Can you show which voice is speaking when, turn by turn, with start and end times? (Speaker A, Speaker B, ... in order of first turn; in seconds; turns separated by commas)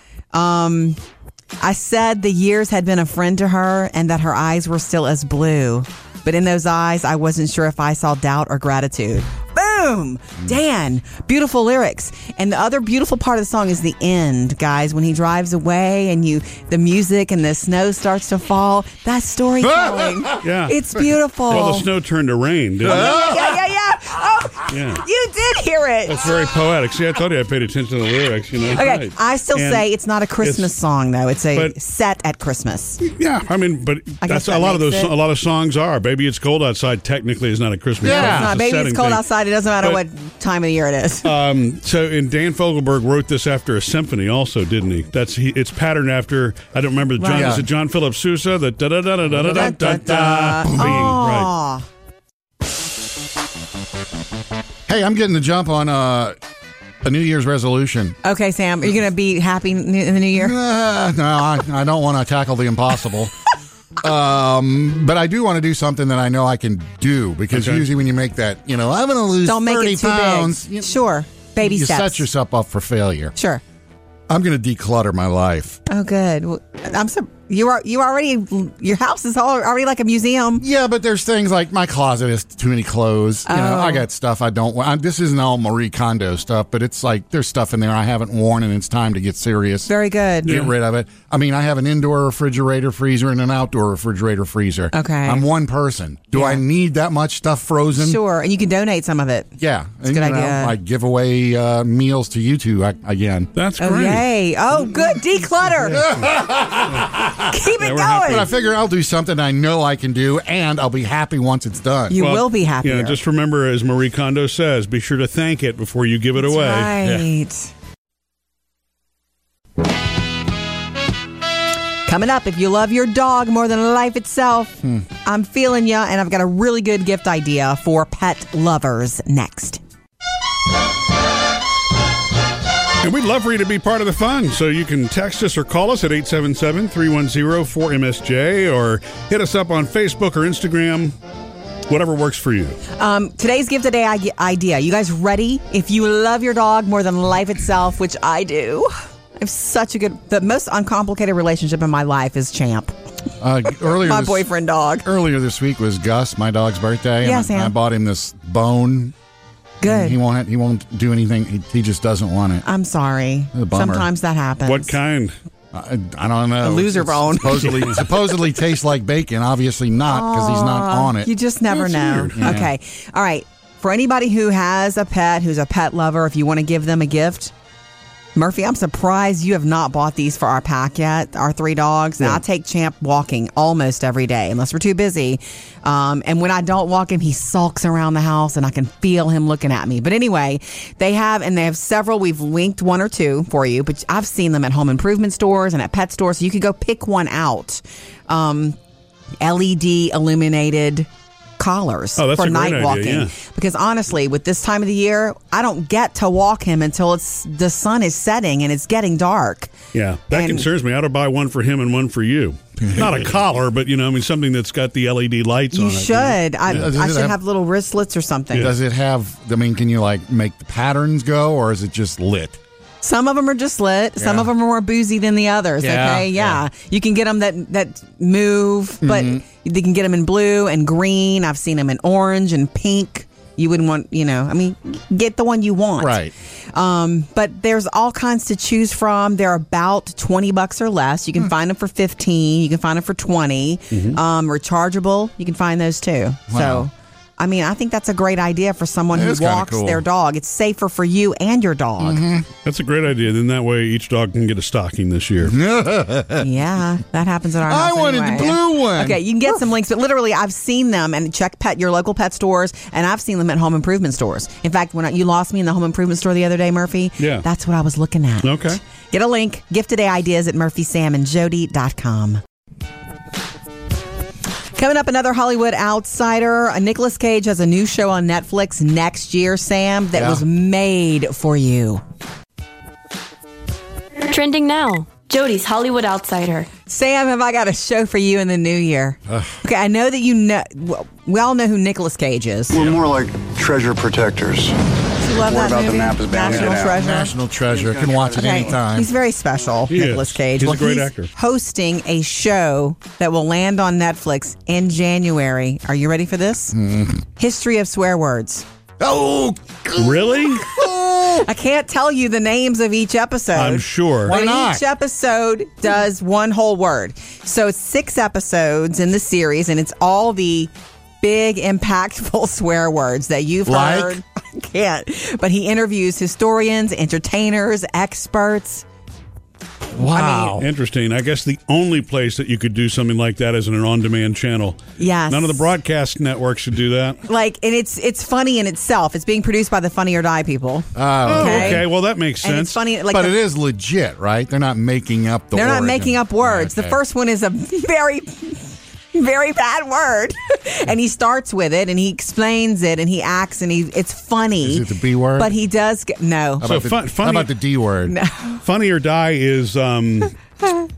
Speaker A: 0.3-1.0, Speaker A: 1.6-21.9, Speaker B: 19.6-20.4, Speaker C: 20.4-20.8, Speaker C: 21.5-23.1, Speaker A: 22.8-26.3, Speaker B: 22.8-23.6, Speaker C: 24.7-25.0, Speaker C: 26.1-29.8, Speaker A: 28.7-33.0, Speaker C: 30.4-30.7, Speaker C: 33.1-39.3, Speaker A: 34.2-35.1, Speaker B: 38.0-38.5, Speaker A: 38.0-41.3, Speaker C: 41.2-51.5, Speaker A: 47.2-47.5, Speaker B: 47.3-47.7, Speaker A: 49.3-51.8, Speaker B: 50.7-51.1, Speaker B: 54.9-56.4, Speaker B: 57.0-58.2, Speaker A: 58.2-60.5, Speaker B: 60.4-63.3, Speaker B: 64.0-70.9, Speaker C: 67.5-67.8, Speaker A: 69.4-72.2, Speaker B: 71.6-73.3, Speaker A: 73.4-73.6, Speaker B: 74.3-75.8, Speaker A: 75.9-80.6, Speaker B: 80.6-89.9, Speaker A: 83.5-84.0, Speaker A: 89.9-90.7, Speaker B: 90.4-98.2, Speaker A: 94.9-95.4, Speaker A: 96.3-96.6, Speaker A: 98.0-99.5, Speaker B: 99.6-103.5, Speaker A: 100.0-100.7, Speaker C: 103.5-104.2, Speaker A: 103.8-106.0, Speaker C: 105.7-106.3, Speaker B: 105.9-107.5, Speaker A: 107.5-108.5, Speaker C: 107.8-108.4, Speaker B: 108.2-112.2, Speaker A: 112.1-113.2, Speaker C: 112.2-117.3, Speaker A: 116.4-117.7, Speaker A: 122.1-129.8, Speaker C: 133.0-141.1, Speaker C: 141.9-142.8, Speaker A: 142.9-152.9, Speaker B: 153.4-154.5, Speaker A: 153.8-155.1, Speaker B: 155.0-159.1, Speaker A: 157.2-157.7, Speaker A: 159.8-160.2, Speaker B: 159.8-162.6, Speaker A: 162.6-164.9, Speaker B: 163.5-164.1, Speaker C: 164.7-165.3, Speaker B: 165.7-171.3, Speaker A: 166.6-167.8, Speaker A: 170.1-177.5, Speaker C: 171.7-172.6, Speaker B: 172.3-172.7, Speaker A: 178.3-198.8, Speaker A: 199.4-201.1, Speaker A: 201.6-209.7, Speaker C: 202.2-203.3, Speaker C: 209.9-216.8, Speaker A: 210.3-210.7, Speaker B: 212.8-213.2, Speaker A: 215.7-218.7, Speaker B: 216.7-217.4, Speaker B: 218.5-222.6, Speaker A: 223.0-236.2, Speaker B: 224.2-224.5, Speaker B: 225.8-226.6, Speaker B: 229.0-229.4, Speaker B: 236.0-236.3, Speaker A: 236.7-252.2, Speaker C: 243.9-244.2, Speaker B: 246.5-246.9, Speaker B: 249.1-250.0, Speaker B: 252.0-252.5, Speaker C: 252.6-255.6, Speaker B: 255.4-256.5, Speaker A: 256.4-272.4, Speaker B: 257.6-259.6, Speaker C: 267.2-267.4, Speaker C: 268.4-268.8, Speaker A: 274.8-282.0, Speaker B: 280.1-280.4, Speaker D: 284.2-286.7, Speaker A: 286.9-292.7, Speaker B: 289.3-289.6, Speaker E: 292.7-294.8, Speaker A: 295.2-297.3, Speaker E: 295.3-297.0, Speaker B: 296.6-299.1, Speaker E: 297.7-298.6, Speaker A: 298.3-306.8, Speaker C: 299.9-301.3, Speaker B: 306.7-307.2, Speaker A: 307.4-308.6, Speaker B: 309.0-311.5, Speaker C: 310.0-310.6, Speaker A: 311.4-320.7, Speaker C: 313.5-314.3, Speaker B: 314.2-314.8, Speaker A: 321.2-328.8, Speaker B: 323.6-324.2, Speaker B: 330.0-330.6, Speaker A: 330.0-330.6, Speaker C: 330.6-337.2, Speaker A: 335.0-335.6, Speaker A: 337.3-341.8, Speaker B: 340.9-341.9, Speaker C: 341.3-342.8, Speaker A: 342.4-343.4, Speaker B: 343.1-347.0, Speaker A: 345.5-356.7, Speaker B: 354.6-355.5, Speaker B: 356.6-358.1, Speaker C: 356.6-357.5, Speaker A: 358.1-358.6, Speaker C: 358.6-360.4